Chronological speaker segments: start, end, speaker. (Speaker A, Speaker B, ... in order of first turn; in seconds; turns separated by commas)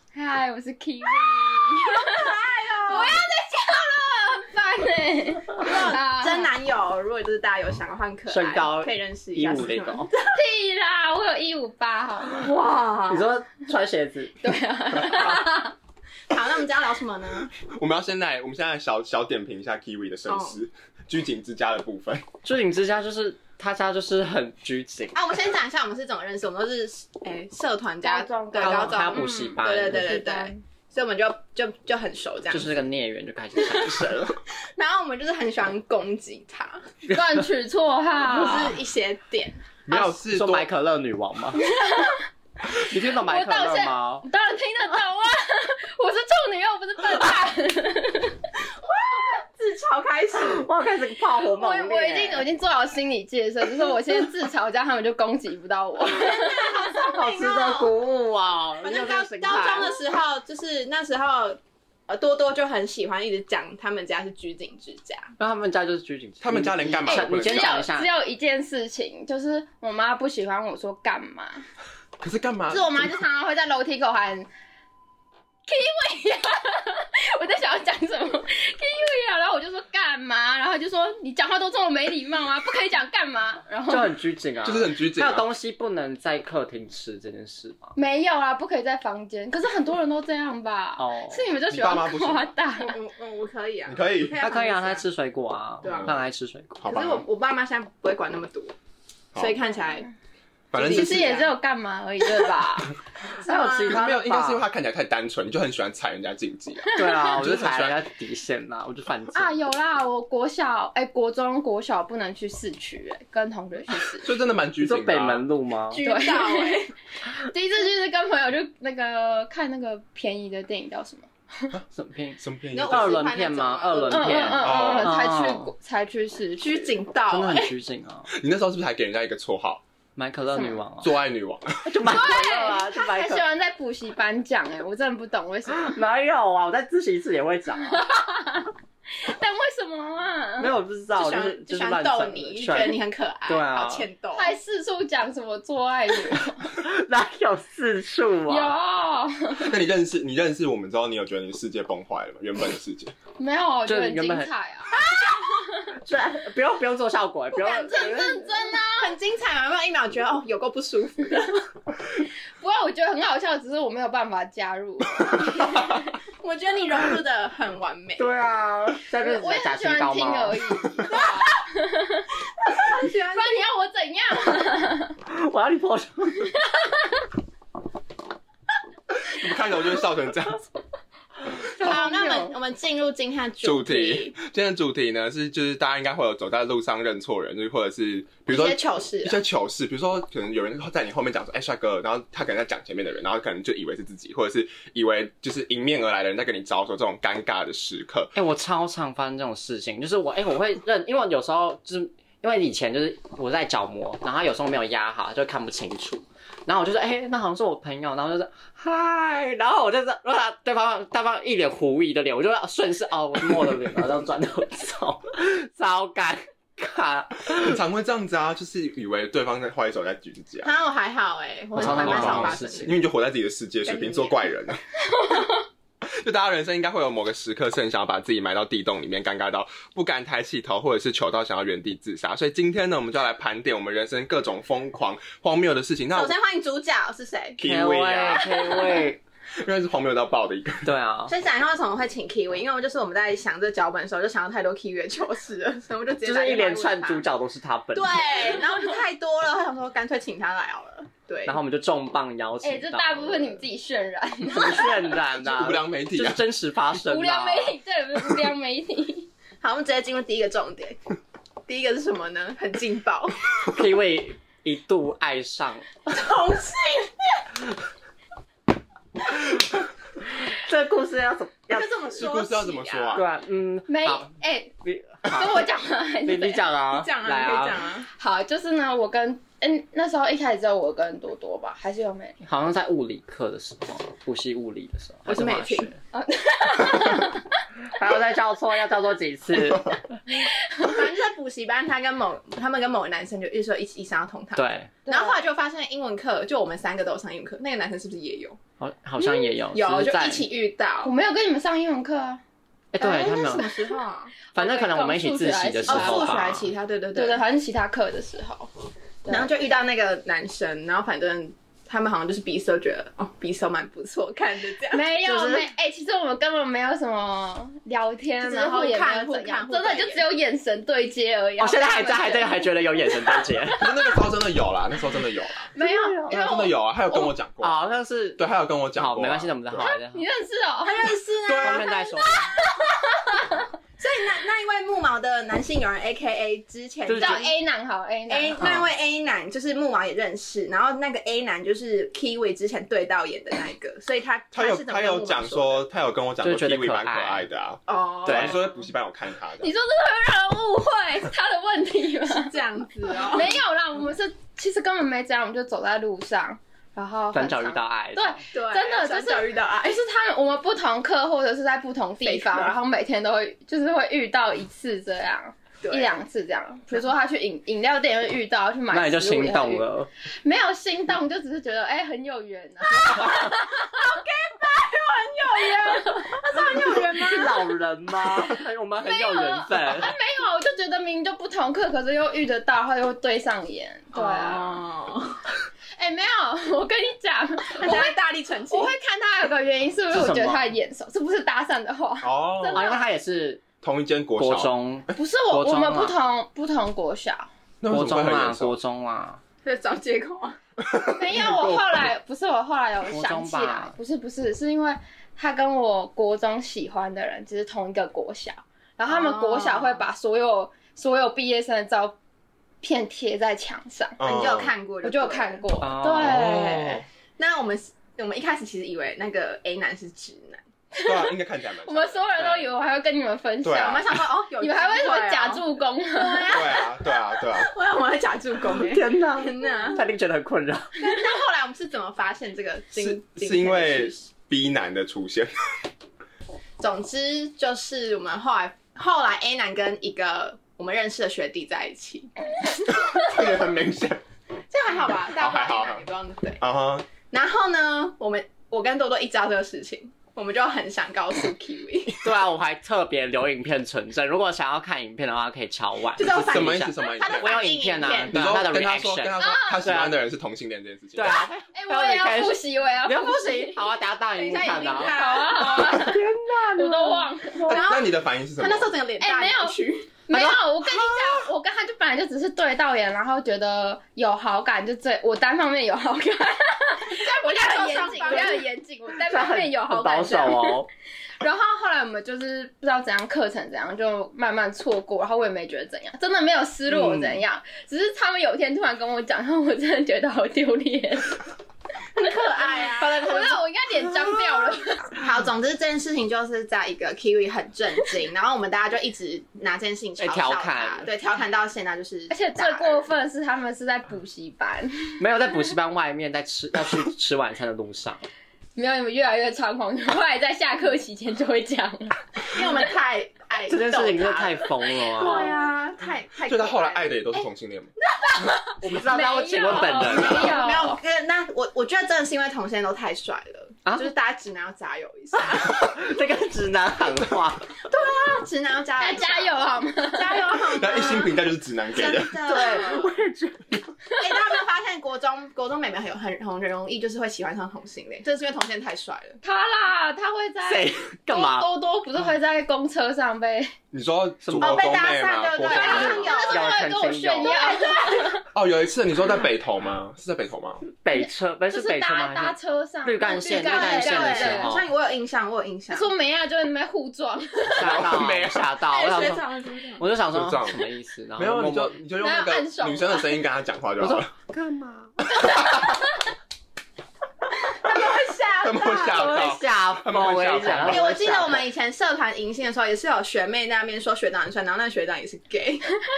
Speaker A: 0.1-6.5, Speaker B: 1.7-3.2, Speaker B: 5.6-10.4, Speaker C: 8.3-10.1, Speaker A: 10.3-12.5, Speaker C: 12.4-14.3, Speaker B: 12.4-13.3, Speaker A: 14.4-15.7, Speaker B: 16.3-17.5, Speaker D: 17.6-22.2, Speaker B: 20.3-20.6, Speaker C: 22.4-25.1, Speaker B: 25.1-32.8, Speaker A: 28.0-30.6, Speaker C: 28.6-30.1, Speaker C: 32.5-34.4, Speaker B: 33.6-36.8, Speaker A: 37.1-38.7, Speaker B: 38.3-39.6, Speaker D: 39.9-40.7, Speaker C: 39.9-41.7, Speaker A: 41.5-42.2, Speaker C: 42.7-44.2, Speaker A: 42.8-48.4, Speaker B: 48.8-50.7, Speaker C: 50.4-52.5, Speaker A: 51.4-57.0, Speaker B: 56.0-57.9, Speaker C: 56.8-59.9, Speaker B: 58.8-65.3, Speaker C: 65.4-68.1, Speaker D: 66.4-67.8, Speaker A: 67.0-71.7, Speaker D: 72.2-73.1, Speaker A: 72.7-74.5, Speaker A: 75.7-84.2, Speaker C: 83.9-87.9, Speaker D: 84.6-85.5, Speaker A: 88.0-92.9, Speaker C: 91.0-91.5, Speaker D: 91.7-92.5, Speaker B: 92.8-95.0, Speaker D: 93.8-94.4, Speaker C: 94.4-96.7, Speaker B: 95.8-96.2, Speaker D: 96.8-97.2, Speaker B: 96.8-98.7, Speaker B: 99.3-100.0, Speaker D: 100.7-101.3, Speaker B: 100.7-101.5, Speaker A: 100.8-102.9, Speaker B: 103.4-104.0, Speaker C: 103.4-104.6, Speaker D: 103.8-108.0, Speaker C: 106.9-109.5, Speaker A: 109.3-114.3, Speaker D: 114.1-115.5, Speaker C: 114.8-116.0, Speaker B: 115.9-116.9, Speaker A: 116.0-116.8, Speaker A: 117.3-121.7, Speaker C: 121.9-125.7, Speaker D: 122.4-123.3, Speaker B: 122.7-124.7, Speaker A: 124.1-126.9, Speaker D: 124.6-125.2, Speaker B: 126.6-127.7, Speaker C: 127.3-128.3, Speaker D: 128.3-129.8, Speaker C: 130.2-131.1, Speaker A: 130.5-130.8, Speaker D: 131.0-132.0, Speaker C: 131.8-133.4, Speaker A: 132.0-135.9, Speaker C: 135.7-138.1, Speaker A: 137.9-138.7, Speaker A: 139.2-140.7, Speaker C: 140.6-144.1, Speaker B: 141.1-144.5, Speaker A: 144.3-146.7, Speaker C: 146.6-148.7, Speaker A: 148.5-149.7, Speaker D: 149.6-153.1, Speaker A: 153.4-155.9, Speaker C: 153.8-154.5, Speaker B: 154.9-155.6, Speaker C: 156.0-158.5, Speaker B: 157.5-158.4, Speaker A: 157.6-159.1, Speaker B: 159.0-161.6, Speaker A: 162.6-166.1, Speaker B: 166.4-168.2, Speaker C: 168.2-170.6, Speaker A: 169.1-172.3, Speaker B: 171.1-171.5, Speaker B: 172.8-173.6, Speaker A: 173.3-175.1, Speaker C: 175.3-176.5, Speaker D: 179.1-180.6, Speaker A: 181.6-182.5, Speaker B: 181.7-184.3, Speaker D: 183.6-198.3, Speaker B: 188.5-189.4, Speaker C: 198.3-217.8, Speaker D: 217.5-220.7, Speaker B: 220.6-223.0, Speaker C: 221.8-223.0, Speaker D: 221.8-224.8, Speaker B: 223.8-224.4, Speaker A: 225.1-225.5, Speaker D: 226.1-236.3, Speaker B: 236.1-237.6, Speaker D: 237.6-240.9, Speaker C: 237.6-239.2, Speaker C: 240.8-241.3, Speaker B: 241.3-247.2, Speaker C: 246.2-248.3, Speaker B: 247.9-251.6, Speaker C: 251.4-253.6, Speaker A: 252.6-255.2, Speaker C: 254.5-257.7, Speaker D: 255.2-256.4, Speaker A: 257.0-259.3, Speaker B: 259.6-261.0, Speaker B: 261.7-263.4, Speaker C: 263.6-265.9, Speaker B: 266.1-267.5, Speaker C: 270.4-271.9, Speaker B: 271.7-273.2, Speaker D: 272.1-273.2, Speaker C: 273.1-274.3, Speaker A: 273.9-274.7, Speaker C: 274.8-275.6, Speaker A: 275.3-276.6, Speaker C: 276.2-277.8, Speaker B: 276.9-278.1, Speaker A: 278.2-282.4, Speaker C: 282.4-285.9, Speaker B: 285.2-285.9, Speaker A: 286.1-287.5, Speaker C: 287.9-290.2, Speaker A: 290.3-291.0, Speaker B: 290.8-298.6, Speaker C: 294.6-294.9, Speaker A: 295.0-295.4, Speaker C: 298.8-300.4, Speaker B: 299.7-301.1, Speaker A: 301.0-302.4, Speaker C: 302.9-303.7, Speaker B: 303.0-304.4, Speaker A: 304.5-306.4, Speaker C: 304.5-306.7, Speaker B: 305.9-307.4, Speaker A: 307.1-308.7, Speaker A: 309.2-309.5, Speaker B: 309.3-315.0, Speaker A: 314.9-323.7, Speaker C: 315.2-315.6, Speaker B: 318.4-320.2, Speaker C: 321.6-323.9, Speaker D: 323.8-325.7, Speaker A: 325.7-327.3, Speaker C: 325.8-326.4, Speaker D: 326.3-327.8, Speaker C: 327.6-328.4, Speaker D: 328.4-329.9, Speaker C: 328.9-330.2, Speaker A: 329.8-333.6, Speaker B: 330.8-332.3, Speaker C: 331.5-332.4, Speaker B: 334.0-337.5, Speaker C: 337.1-337.4, Speaker A: 337.2-338.6, Speaker B: 338.3-345.8, Speaker C: 338.6-338.9, Speaker D: 344.5-349.7, Speaker C: 346.4-347.4, Speaker B: 347.9-348.6, Speaker C: 348.2-348.5, Speaker A: 349.6-352.5, Speaker B: 352.3-353.5, Speaker A: 353.3-369.9, Speaker C: 357.3-358.4, Speaker B: 358.5-360.0, Speaker B: 362.2-362.7, Speaker B: 365.8-366.1, Speaker C: 368.9-370.1, Speaker A: 370.4-374.1, Speaker B: 372.9-377.7, Speaker A: 375.6-376.4, Speaker C: 376.5-380.1, Speaker A: 379.0-384.8, Speaker B: 384.1-385.4, Speaker A: 385.9-388.2, Speaker B: 387.8-388.9, Speaker A: 388.7-393.0, Speaker C: 390.1-390.7, Speaker D: 392.2-392.9, Speaker C: 392.7-393.6, Speaker D: 393.8-395.1, Speaker C: 394.4-396.1, Speaker A: 395.1-397.5, Speaker D: 397.8-398.8, Speaker C: 397.9-399.4, Speaker B: 399.6-400.6, Speaker D: 400.8-401.8, Speaker A: 401.1-412.1, Speaker C: 403.1-403.9, Speaker B: 409.1-410.0, Speaker A: 412.8-414.2, Speaker D: 414.2-414.7, Speaker B: 414.2-415.6, Speaker A: 415.0-417.0, Speaker C: 415.8-416.5, Speaker D: 416.1-417.0, Speaker B: 417.4-420.6, Speaker A: 420.9-426.6, Speaker D: 421.0-422.2, Speaker C: 422.4-422.6, Speaker D: 423.6-424.2, Speaker B: 423.7-430.1, Speaker D: 426.5-427.7, Speaker C: 428.8-430.9, Speaker B: 430.9-434.3, Speaker D: 432.9-435.5, Speaker B: 436.8-442.3, Speaker D: 442.9-444.2, Speaker B: 444.7-446.6, Speaker D: 445.3-446.0, Speaker D: 446.6-447.1, Speaker B: 447.3-452.2, Speaker C: 452.1-460.1, Speaker B: 456.2-458.4, Speaker D: 456.2-457.7, Speaker D: 458.3-461.4, Speaker A: 459.4-459.9, Speaker C: 461.1-467.8, Speaker A: 461.7-463.8, Speaker B: 464.3-465.9, Speaker A: 465.0-466.2, Speaker A: 466.7-467.7, Speaker D: 467.7-468.9, Speaker B: 467.7-470.2, Speaker A: 469.2-480.8, Speaker C: 470.3-470.6, Speaker B: 477.1-478.6, Speaker C: 479.1-480.9, Speaker A: 481.4-491.4, Speaker C: 486.9-487.4, Speaker B: 492.1-493.2, Speaker A: 492.2-495.1, Speaker C: 493.0-493.6, Speaker B: 495.1-503.1, Speaker C: 500.2-501.1, Speaker A: 502.3-505.2, Speaker C: 505.2-508.2, Speaker A: 508.8-512.6, Speaker B: 512.5-517.4, Speaker C: 513.7-515.5, Speaker D: 516.5-517.9, Speaker B: 518.1-518.8, Speaker C: 518.8-520.6, Speaker A: 518.9-521.0, Speaker B: 519.5-525.8, Speaker C: 525.3-527.7, Speaker B: 527.9-531.4, Speaker A: 529.0-530.5, Speaker D: 530.7-532.4, Speaker B: 531.9-533.1, Speaker C: 532.4-533.8, Speaker B: 534.2-539.4, Speaker A: 539.4-543.7, Speaker C: 540.7-541.7, Speaker D: 543.9-546.4, Speaker C: 544.4-545.0, Speaker B: 544.6-546.8, Speaker A: 545.7-548.4, Speaker C: 545.7-547.8, Speaker B: 547.4-548.4, Speaker D: 548.5-550.8, Speaker C: 551.0-554.9, Speaker A: 551.1-554.8, Speaker B: 553.4-556.1, Speaker A: 555.9-558.1, Speaker C: 557.8-559.4, Speaker D: 557.8-558.7, Speaker B: 558.8-560.0, Speaker C: 560.0-562.0, Speaker D: 560.3-564.3, Speaker A: 562.2-563.4, Speaker C: 564.0-565.3, Speaker D: 565.3-565.8, Speaker B: 567.7-569.6, Speaker D: 568.6-571.1, Speaker C: 569.0-571.6, Speaker B: 570.7-575.9